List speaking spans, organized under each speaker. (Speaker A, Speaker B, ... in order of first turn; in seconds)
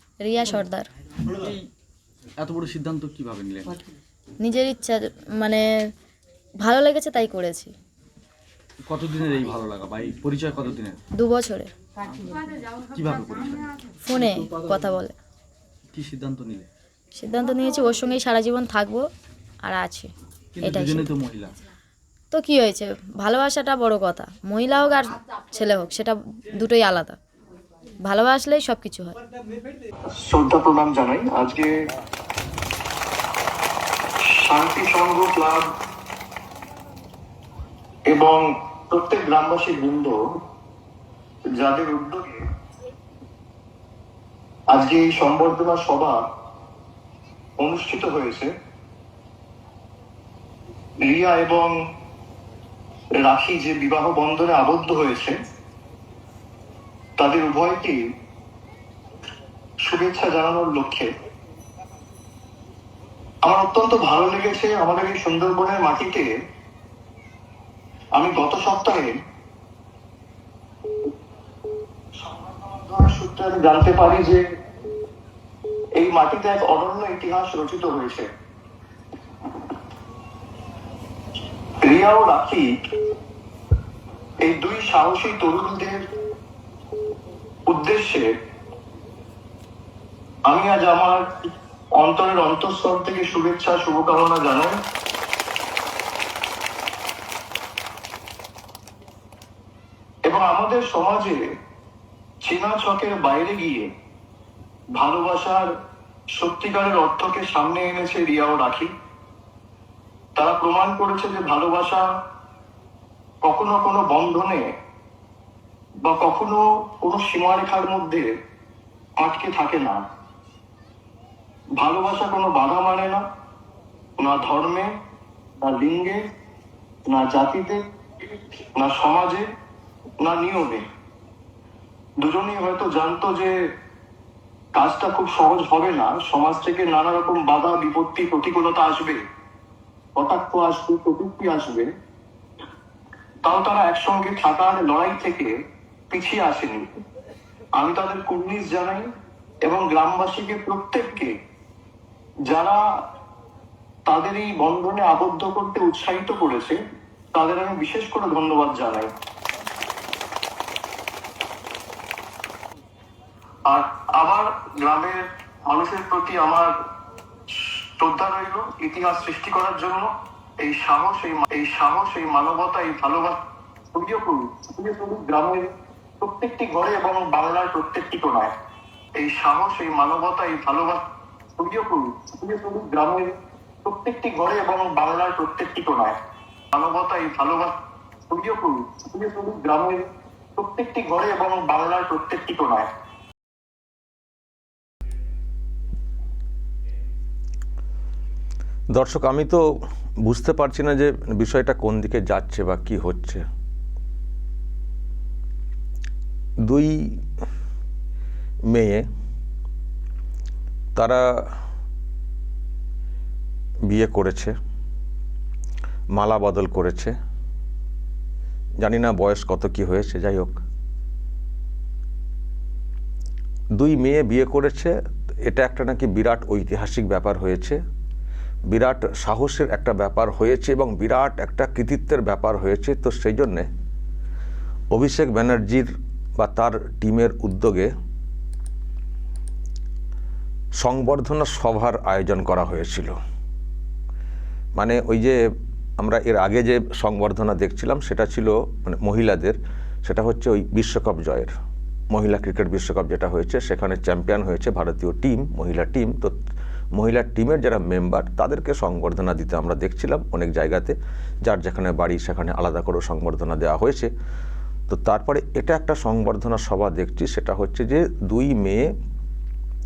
Speaker A: 0.2-0.9, 4.4-5.7, 6.6-7.7, 11.2-11.7, 14.0-15.1, 17.1-19.1, 19.6-20.1, 20.6-21.1, 22.3-27.2, 28.0-29.1
Speaker B: 1.3-1.7, 2.4-3.8, 8.9-11.0, 12.1-13.8, 15.9-16.7, 20.6-21.5
Speaker C: 30.2-31.7, 34.2-35.6, 38.1-40.1, 41.6-42.4, 44.7-46.2, 47.6-48.5, 51.0-51.7, 53.2-55.3, 57.2-58.0, 59.8-61.1, 63.4-66.3, 68.1-69.1, 72.2-74.4, 75.9-78.3, 81.8-82.7, 84.4-86.0, 87.7-88.3, 90.5-91.2, 91.9-94.7, 100.2-101.4, 102.4-103.9, 104.9-105.7, 106.3-108.9, 110.3-112.0, 113.4-114.6, 116.0-118.3, 119.2-120.0, 121.8-123.2, 124.2-124.9, 125.6-126.2, 127.1-127.8, 128.8-129.4, 130.2-130.8, 132.2-133.5, 134.7-139.2, 140.2-141.9, 143.4-145.5, 146.1-146.9, 147.8-149.0, 149.6-151.3, 152.5-152.8, 154.1-156.8, 157.3-159.1, 163.7-166.7, 167.5-170.1, 170.6-173.4, 173.9-175.7, 176.2-178.5, 179.2-181.0, 181.6-183.3, 183.8-186.1, 186.7-187.7, 188.3-192.9
Speaker D: 198.9-199.6, 200.2-203.4, 206.6-207.2, 208.7-209.1, 210.9-211.5, 213.9-214.5, 216.1-217.1, 218.8-220.6, 223.8-227.8, 228.7-233.7, 234.9-237.9, 240.8-243.2, 244.8-245.5, 246.0-251.5, 252.1-256.3, 256.9-264.1, 264.9-268.9